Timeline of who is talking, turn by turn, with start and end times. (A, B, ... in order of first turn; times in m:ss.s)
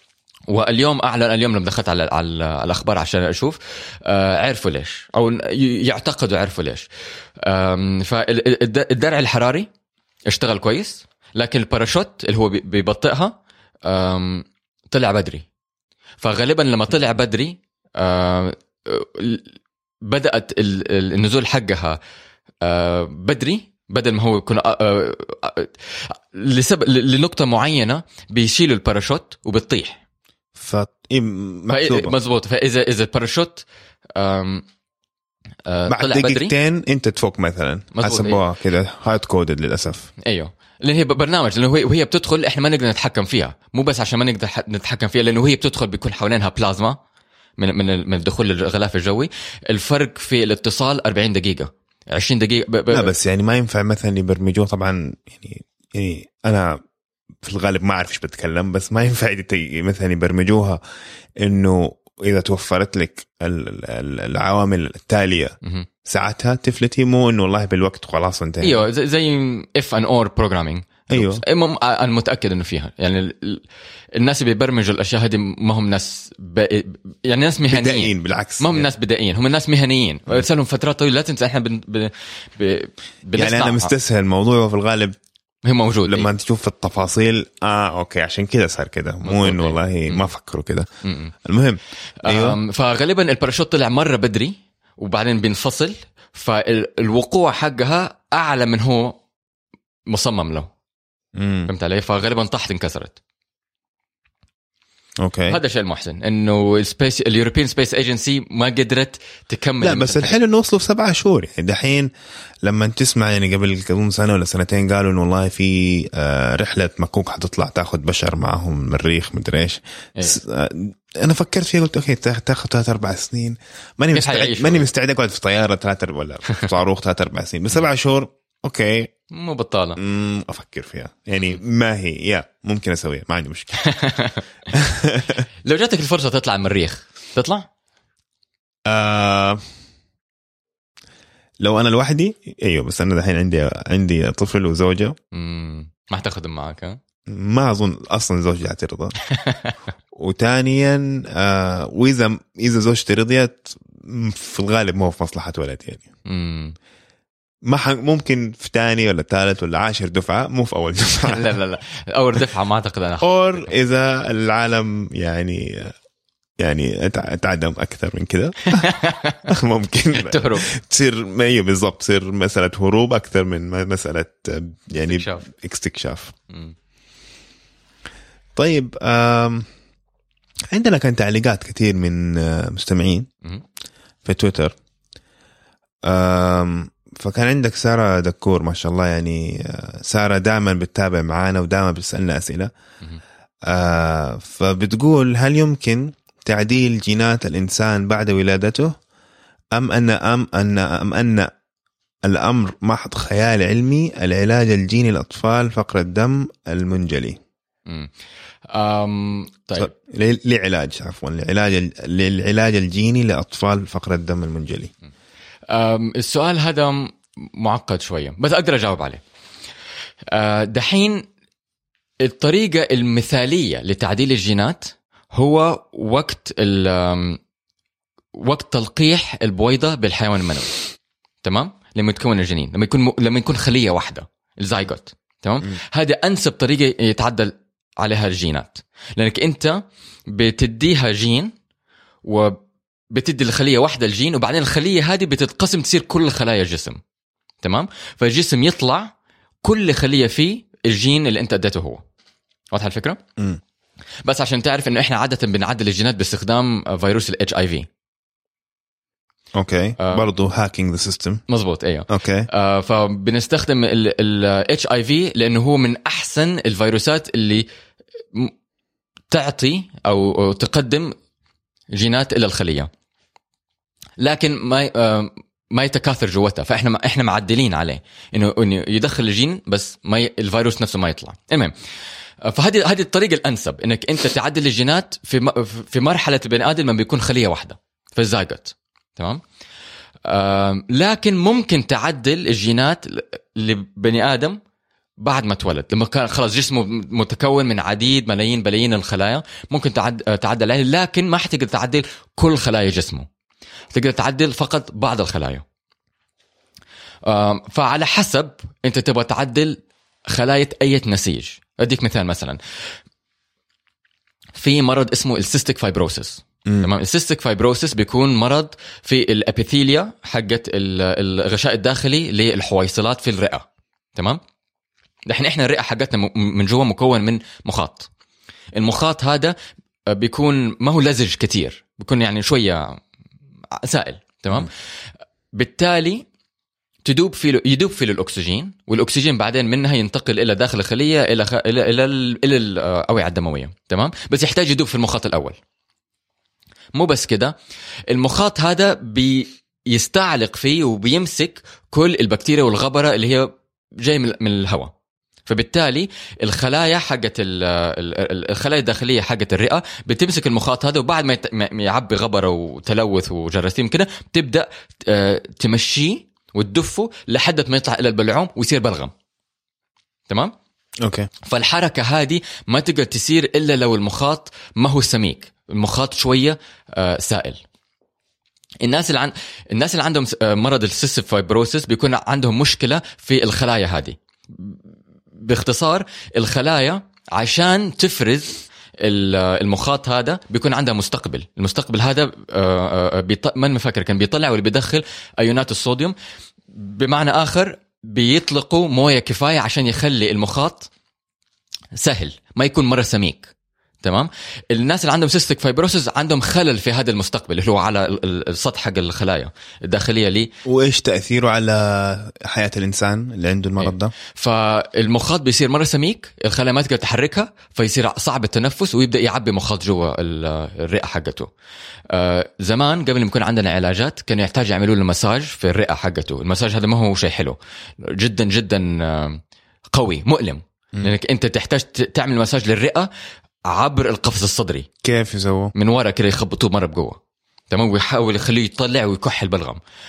0:00.5-0:09.7 A
0:10.3-0:15.4 A
0:16.2-0:19.5 A
0:20.0-0:22.0 A
0:22.6-0:30.0 A
0:30.6-0:32.2 B
0:31.7-0:34.7 A
0:35.7-0:36.5 A
0:35.9-0:40.1 B
0:38.0-0:38.4 A
0:40.2-0:47.0 A
0:47.6-0:53.1 A
0:52.9-0:56.8 B
0:57.4-1:00.8 B
1:01.4-1:08.9 B
1:08.6-1:13.6 A
1:11.1-1:11.4 B
1:14.2-1:23.9 A
1:17.7-1:18.9 B
1:23.4-1:25.2 B
1:25.6-1:26.3 A
1:26.1-1:30.9 B
1:29.2-1:30.2 A
1:31.0-1:31.3 A
1:31.4-1:32.6 B
1:32.2-1:39.2 A
1:40.1-1:40.7 A
1:41.4-1:41.7 B
1:41.7-1:43.2 A
1:45.2-1:45.6 B
1:45.5-1:50.4 A
1:49.8-1:52.1 B
1:52.6-2:09.1 B
2:04.1-2:04.9 A
2:09.3-2:10.0 A
2:10.0-2:14.0 B
2:13.8-2:14.4 A
2:14.7-2:15.4 B
2:15.6-2:17.7 A
2:18.9-2:19.6 B
2:21.6-2:25.2 B
2:25.3-2:27.0 A
2:27.3-2:29.2 B
2:29.2-2:29.7 A
2:30.1-2:36.0 B
2:36.3-2:36.8 A
2:37.7-2:41.5 B
2:41.3-2:43.7 A
2:43.2-2:45.9 B
2:46.6-2:48.9 B
2:48.7-2:49.5 A
2:49.5-2:56.3 B
2:50.1-2:50.7 A
2:55.1-2:55.4 A
2:56.5-2:56.8 A
2:58.6-2:59.7 B
3:00.7-3:03.3 B
3:04.2-3:04.8 B
3:06.1-3:12.7 B
3:13.7-3:19.0 B
3:19.7-3:21.5 B
3:22.2-3:27.4 B
3:27.9-3:28.1 A
3:28.7-3:29.9 A
3:29.8-3:34.9 B
3:35.7-3:39.2 A
3:40.3-3:41.2 A
3:42.2-3:47.4 A
3:48.3-3:50.8 A
3:51.4-4:01.5 A
4:02.2-4:07.0 A
4:07.6-4:12.0 A
4:12.7-4:13.2 A
4:14.2-4:17.9 A
4:19.6-4:21.4 B
4:20.0-4:20.2 A
4:21.5-4:27.7 A
4:22.1-4:22.5 B
4:29.3-4:31.1 A
4:31.9-4:32.9 A
4:34.2-4:41.8 A
4:42.4-4:49.4 A
4:50.3-4:54.6 A
4:55.2-5:03.3 A
5:03.9-5:05.6 A
5:07.2-5:12.6 A
5:14.6-5:24.4 A
5:25.3-5:28.1 A
5:28.8-5:29.6 A
5:30.1-5:33.0 A
5:33.7-5:34.7 A
5:35.5-5:36.2 A
5:37.0-5:45.6 A
5:46.9-5:47.6 A
5:48.1-5:54.9 A
5:55.5-6:09.1 A
6:11.0-6:11.3 B
6:11.4-6:17.6 A
6:18.8-6:36.2 A
6:36.7-6:40.9 A
6:42.0-6:43.5 A
6:44.0-6:50.5 A
6:50.6-6:54.1 B
6:53.8-7:01.5 A
7:02.1-7:09.4 A
7:09.9-7:13.1 A
7:13.7-7:14.9 A
7:15.0-7:15.7 B
7:15.8-7:17.2 A
7:17.7-7:19.8 A